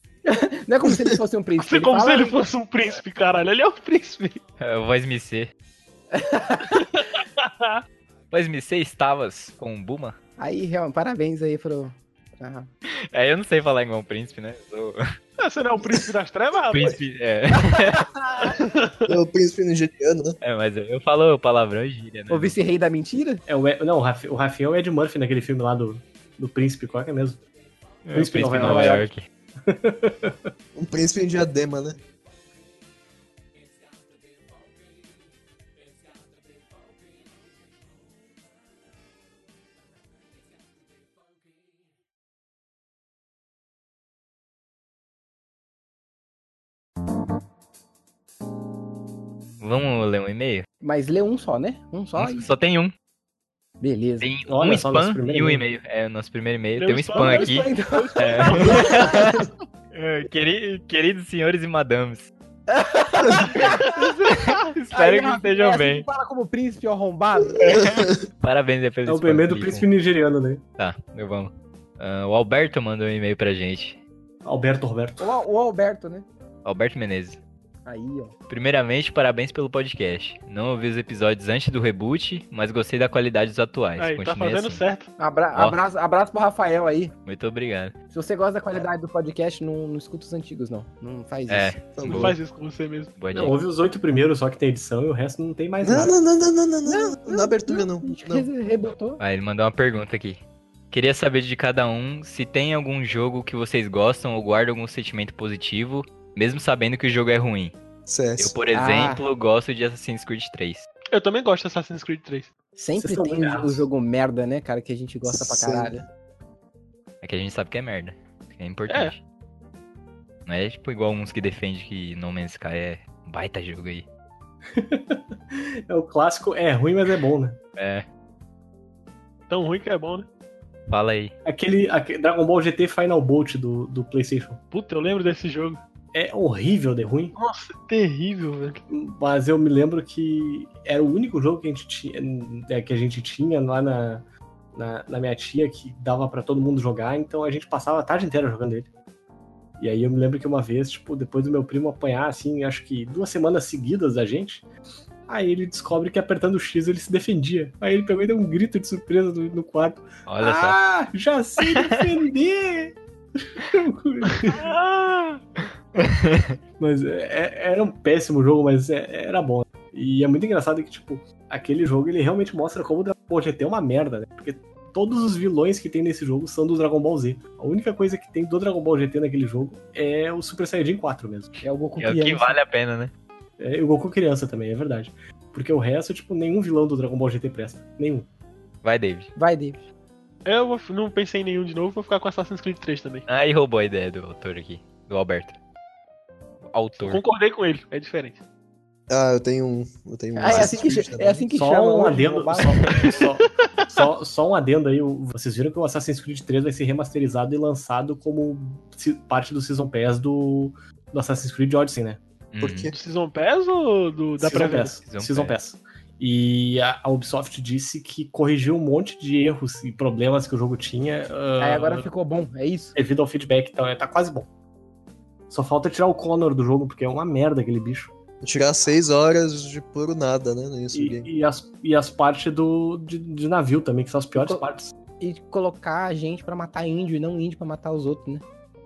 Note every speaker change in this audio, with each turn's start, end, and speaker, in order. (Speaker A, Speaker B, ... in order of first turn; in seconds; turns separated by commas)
Speaker A: 0.2-2.4, Speaker B: 1.6-4.4, Speaker C: 4.6-5.5, Speaker A: 6.1-6.9, Speaker B: 6.9-7.8, Speaker C: 8.3-10.2, Speaker A: 10.4-12.7, Speaker C: 12.9-15.0, Speaker B: 15.4-17.0, Speaker C: 16.7-18.1, Speaker A: 17.7-18.6, Speaker B: 18.6-19.1, Speaker D: 19.1-20.4, Speaker C: 20.4-22.6, Speaker A: 22.3-23.4, Speaker E: 23.5-27.4, Speaker C: 28.0-29.2, Speaker E: 28.1-29.1, Speaker E: 29.6-30.5, Speaker D: 30.7-32.0, Speaker C: 49.6-50.6, Speaker A: 50.8-52.5, Speaker C: 52.2-52.9, Speaker A: 53.8-54.3, Speaker C: 54.2-59.4, Speaker E: 54.5-55.6, Speaker B: 56.8-59.3, Speaker A: 57.1-59.3, Speaker C: 59.9-62.3, Speaker A: 62.7-64.0, Speaker C: 63.5-66.0, Speaker A: 64.9-67.7, Speaker D: 67.6-68.1, Speaker C: 67.6-69.9, Speaker E: 69.0-70.6, Speaker C: 70.8-74.0, Speaker E: 74.4-75.3, Speaker A: 75.2-76.2, Speaker C: 76.6-77.4, Speaker A: 77.8-78.3, Speaker C: 78.5-84.8, Speaker B: 84.0-85.1, Speaker A: 85.2-87.1, Speaker C: 87.2-87.9, Speaker A: 88.1-91.8, Speaker C: 91.5-92.3, Speaker D: 92.0-92.3, Speaker B: 92.0-93.1, Speaker C: 93.2-93.6, Speaker E: 93.3-96.1, Speaker D: 95.8-98.5, Speaker A: 96.8-99.2, Speaker C: 99.2-107.7, Speaker D: 108.0-108.5, Speaker C: 108.4-110.9, Speaker A: 108.7-109.2, Speaker B: 111.1-112.5, Speaker A: 112.8-116.0, Speaker E: 113.0-113.8, Speaker D: 115.3-115.9, Speaker C: 117.2-119.2, Speaker B: 118.9-119.1, Speaker C: 120.5-124.0, Speaker E: 124.7-127.6, Speaker C: 127.8-128.0, Speaker B: 129.5-130.3, Speaker C: 130.9-131.3, Speaker E: 131.4-134.6, Speaker B: 134.7-135.8, Speaker E: 136.1-137.3, Speaker B: 137.3-138.8, Speaker E: 138.9-148.9, Speaker E: 149.8-154.7, Speaker E: 155.3-164.5, Speaker C: 160.3-160.8, Speaker C: 161.6-162.0, Speaker C: 164.5-166.6, Speaker E: 166.8-181.5, Speaker A: 181.6-182.6, Speaker C: 182.0-183.1, Speaker E: 183.6-188.3, Speaker C: 188.8-189.3, Speaker A: 189.3-189.8, Speaker B: 190.4-193.2, Speaker C: 193.3-195.5, Speaker C: 196.6-197.2, Speaker B: 197.0-198.4, Speaker D: 199.1-201.5, Speaker A: 200.3-202.8, Speaker E: 201.5-212.2, Speaker B: 203.4-203.9, Speaker C: 212.5-212.9, Speaker D: 212.6-212.9, Speaker B: 212.9-215.0, Speaker E: 214.4-222.1, Speaker C: 215.0-215.5, Speaker A: 221.6-222.9, Speaker E: 222.9-224.5, Speaker E: 225.5-228.1, Speaker D: 228.4-231.3, Speaker E: 230.9-234.9, Speaker A: 234.3-234.6, Speaker A: 235.2-238.4